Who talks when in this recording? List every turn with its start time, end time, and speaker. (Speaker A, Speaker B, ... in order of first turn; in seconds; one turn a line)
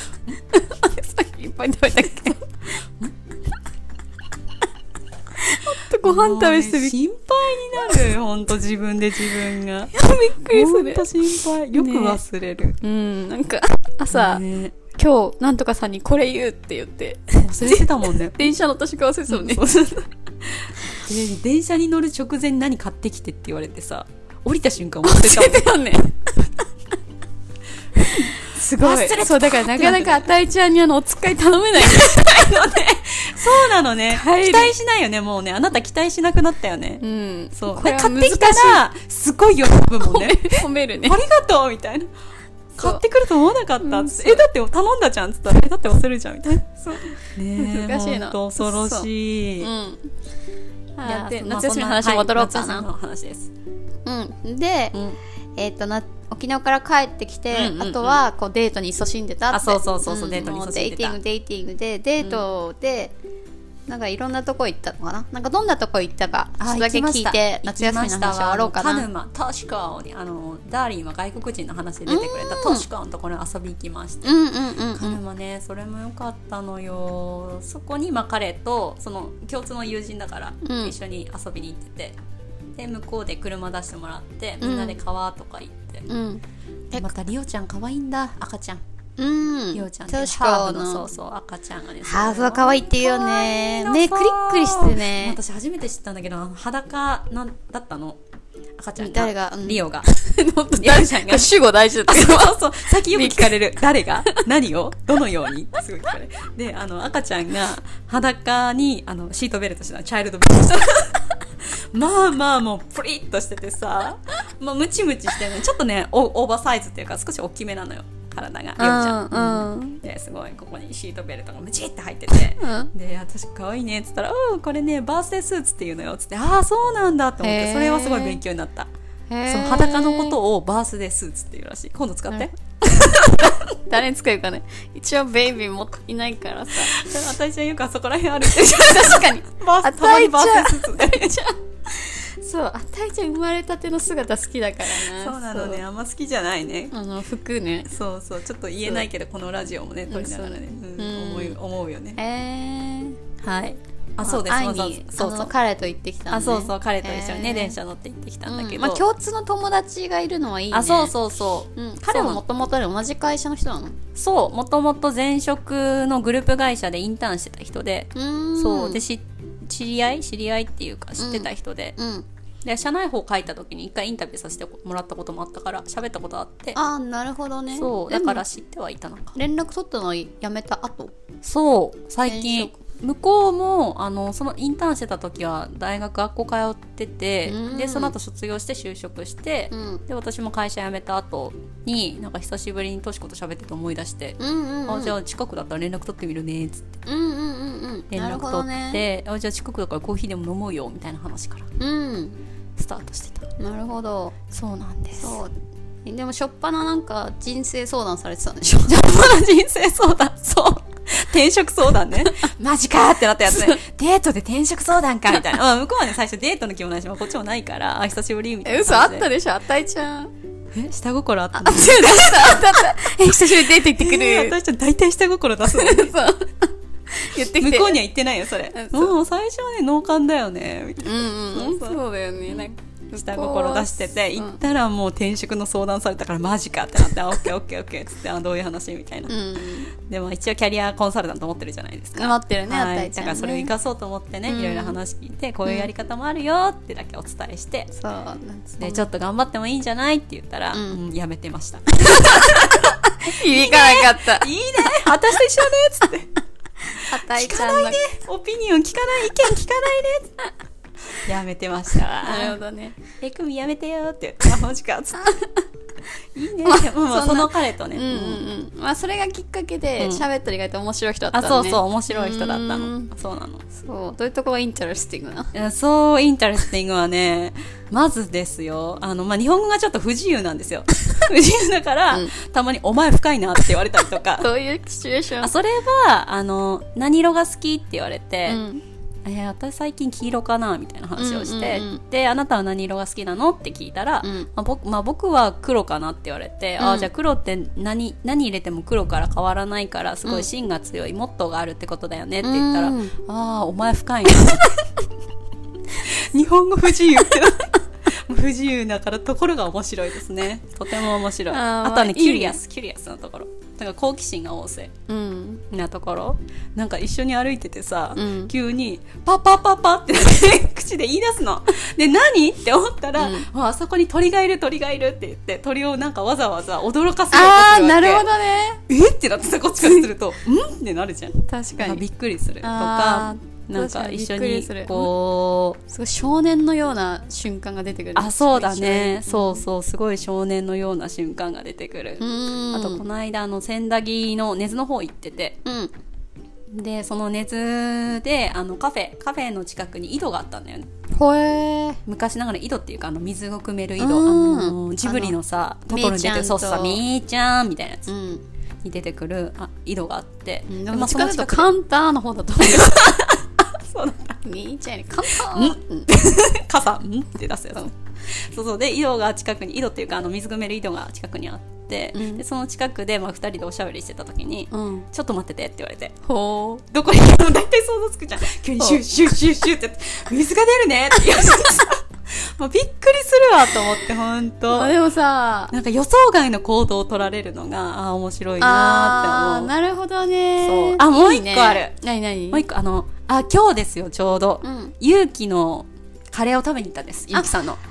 Speaker A: 0.5-2.5
Speaker A: 5.4-7.0
Speaker B: 6.0-12.8
Speaker A: 7.7-8.1
Speaker A: 9.9-12.2
Speaker A: 12.8-20.0
Speaker B: 14.1-14.8
Speaker B: 17.4-18.5
Speaker B: 19.3-25.7
Speaker A: 25.0-26.5
Speaker A: 28.0-32.8
Speaker B: 28.0-30.3
Speaker B: 31.8-37.0
Speaker A: 34.1-34.7
Speaker A: 37.0-38.8
Speaker B: 37.5-42.1
Speaker A: 39.9-41.2
Speaker B: 42.8-49.7
Speaker A: 43.8-44.4
Speaker A: 46.9-49.1
Speaker A: 49.6-50.1
Speaker A: 51.0-52.9
Speaker B: 51.0-53.5
Speaker A: 54.0-55.0
Speaker B: 54.9-55.2
Speaker A: 55.6-63.1
Speaker B: 57.5-58.2
Speaker B: 59.5-61.2
Speaker A: 63.9-69.1
Speaker B: 66.6-74.4
Speaker A: 72.1-72.9
Speaker A: 74.2-75.2
Speaker B: 74.9-82.2
Speaker A: 80.6-80.9
Speaker B: 82.8-86.1
Speaker A: 84.6-85.0
Speaker A: 86.1-87.1
Speaker B: 86.9-88.8
Speaker A: 89.2-91.0
Speaker B: 89.7-98.2
Speaker A: 92.0-95.4
Speaker B: 98.8-100.1
Speaker A: 99.0-104.5
Speaker B: 100.8-128.9
Speaker A: 118.8-120.0
Speaker A: 122.6-122.9
Speaker A: 127.4-128.4
Speaker A: 129.3-130.4
Speaker B: 129.5-133.7
Speaker A: 132.3-137.1
Speaker B: 136.8-141.4
Speaker A: 138.4-145.8
Speaker B: 144.8-146.9
Speaker A: 146.9-147.9
Speaker B: 147.9-152.2
Speaker A: 150.1-151.6
Speaker A: 152.2-153.2
Speaker B: 153.4-155.5
Speaker A: 154.2-157.8
Speaker B: 156.3-159.0
Speaker A: 158.5-164.0
Speaker B: 160.7-162.4
Speaker B: 164.2-171.9
Speaker A: 168.2-169.0
Speaker A: 171.2-172.2
Speaker B: 172.6-176.8
Speaker A: 176.8-178.4
Speaker B: 177.7-179.4
Speaker A: 179.3-181.1
Speaker B: 181.4-197.0
Speaker A: 182.2-182.8
Speaker A: 187.4-188.1
Speaker A: 189.7-190.0
Speaker A: 194.4-195.1
Speaker A: 197.1-199.0
Speaker B: 198.1-201.7
Speaker A: 201.8-202.4
Speaker B: 202.8-203.4
Speaker A: 203.6-204.4
Speaker B: 204.5-205.4
Speaker A: 205.2-205.5
Speaker A: 206.1-209.2
Speaker B: 208.9-219.3
Speaker A: 218.6-220.3
Speaker B: 220.7-226.2
Speaker A: 221.6-224.6
Speaker A: 225.7-228.0
Speaker B: 227.4-239.3
Speaker A: 228.7-229.1
Speaker A: 231.0-234.6
Speaker A: 239.3-239.9
Speaker B: 240.0-247.9
Speaker A: 242.2-243.7
Speaker A: 244.5-245.0
Speaker A: 247.9-249.1
Speaker B: 248.8-256.3
Speaker A: 250.7-251.0
Speaker A: 252.1-255.1
Speaker A: 257.0-258.0
Speaker B: 257.1-260.4
Speaker B: 261.2-265.5
Speaker A: 262.2-263.0
Speaker B: 266.3-268.4
Speaker A: 266.6-273.1
Speaker B: 270.0-270.2
Speaker B: 271.3-273.6
Speaker A: 273.7-275.5
Speaker B: 275.5-284.5
Speaker A: 284.4-285.5
Speaker B: 285.4-288.6
Speaker A: 288.5-288.8
Speaker B: 289.2-304.8
Speaker A: 291.2-292.0
Speaker A: 294.2-294.5
Speaker A: 296.8-297.1
Speaker A: 302.4-303.1
Speaker B: 305.9-314.9
Speaker A: 311.5-312.6
Speaker A: 315.1-315.6
Speaker B: 315.7-328.3
Speaker A: 318.1-318.5
Speaker A: 323.2-323.5
Speaker A: 327.3-328.8
Speaker B: 328.9-335.8
Speaker A: 331.4-332.0
Speaker A: 332.6-335.1
Speaker A: 335.9-339.6
Speaker B: 338.1-345.6
Speaker A: 342.2-343.0
Speaker A: 345.6-345.9
Speaker B: 346.7-350.9
Speaker A: 351.1-352.0
Speaker B: 352.1-358.1
Speaker A: 354.0-355.4
Speaker A: 355.9-357.0
Speaker A: 358.1-358.4
Speaker B: 358.8-361.7
Speaker A: 360.7-363.2
Speaker B: 362.6-364.4
Speaker A: 364.4-366.1
Speaker B: 365.3-376.1
Speaker A: 372.1-372.4
Speaker A: 374.7-375.1
Speaker A: 376.2-376.8
Speaker B: 376.9-384.9
Speaker A: 384.7-385.8
Speaker B: 385.7-389.7
Speaker A: 388.6-392.6
Speaker B: 390.6-391.9
Speaker B: 392.5-397.8
Speaker A: 394.6-394.9